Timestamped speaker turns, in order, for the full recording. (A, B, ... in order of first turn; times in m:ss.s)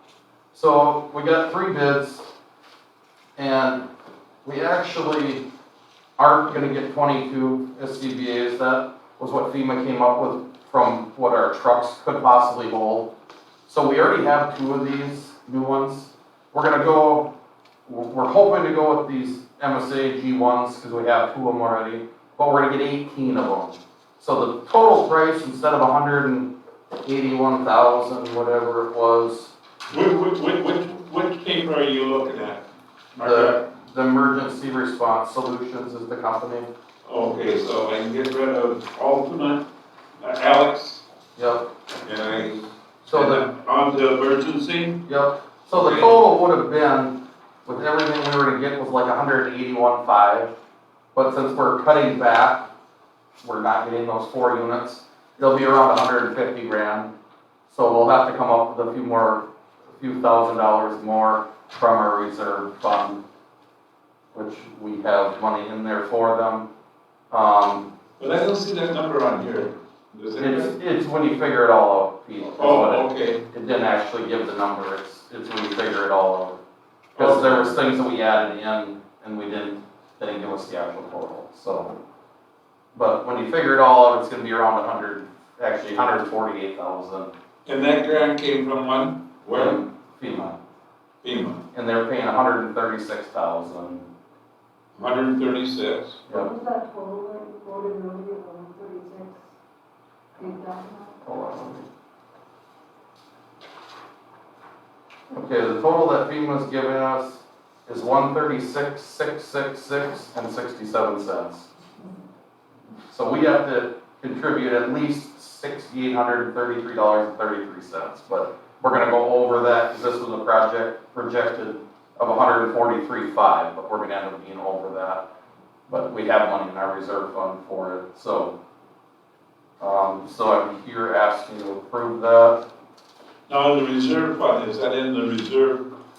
0:00.5-0:02.3 A
0:03.4-0:03.8 A
0:04.4-0:05.4 A
0:06.2-0:13.1 A
0:13.7-0:17.3 A
0:17.8-0:26.5 A
0:27.0-0:29.5 A
0:29.9-0:32.6 B
0:33.1-0:33.6 B
0:33.2-0:36.7 A
0:37.0-0:39.6 B
0:40.2-0:41.0 B
0:41.4-0:41.6 A
0:42.0-0:45.0 B
0:43.1-0:43.4 A
0:45.0-0:47.1 A
0:45.7-0:46.2 B
0:47.6-0:50.5 A
0:51.1-0:52.6 A
0:53.4-0:57.1 A
0:57.7-0:59.4 A
1:00.0-1:03.2 A
1:04.3-1:06.6 A
1:07.3-1:07.8 A
1:08.2-1:10.7 B
1:10.4-1:16.6 A
1:12.4-1:13.4 B
1:17.2-1:17.8 B
1:17.2-1:21.9 A
1:22.9-1:27.3 A
1:27.6-1:29.8 B
1:29.5-1:30.6 A
1:31.2-1:31.6 B
1:31.7-1:34.0 A
1:34.9-1:36.2 B
1:36.3-1:39.4 C
1:40.4-1:41.1 C
1:41.2-1:41.8 A
1:45.3-1:51.7 A
1:53.1-2:05.2 A
2:05.9-2:08.5 A
2:09.8-2:12.6 A
2:13.5-2:15.9 B